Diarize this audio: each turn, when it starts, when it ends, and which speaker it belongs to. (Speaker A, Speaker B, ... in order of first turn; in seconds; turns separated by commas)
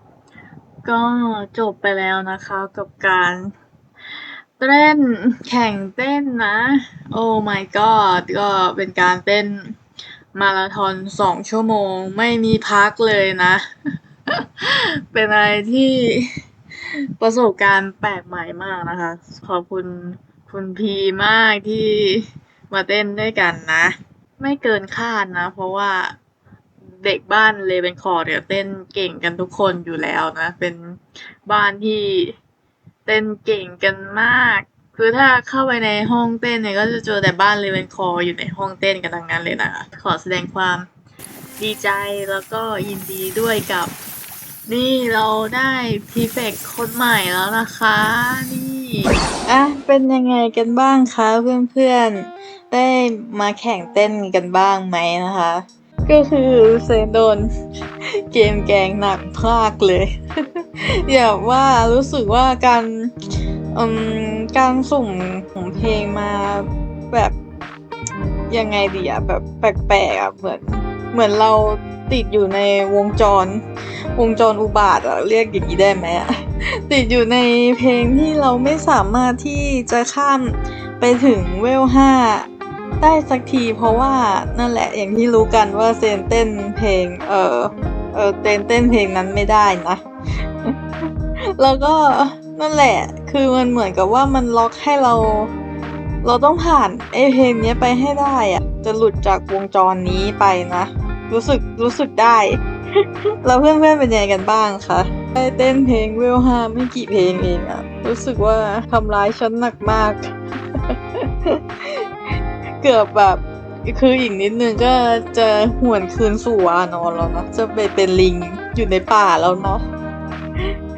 Speaker A: 0.8-3.5, Speaker A: 4.6-9.8, Speaker A: 10.3-13.7, Speaker A: 14.3-26.1, Speaker A: 27.0-32.4, Speaker A: 33.0-40.9, Speaker A: 41.6-43.9, Speaker A: 44.7-57.5, Speaker A: 58.0-63.1, Speaker A: 63.7-67.3, Speaker A: 68.5-73.6, Speaker A: 74.1-82.5, Speaker A: 83.0-95.5, Speaker A: 96.2-119.8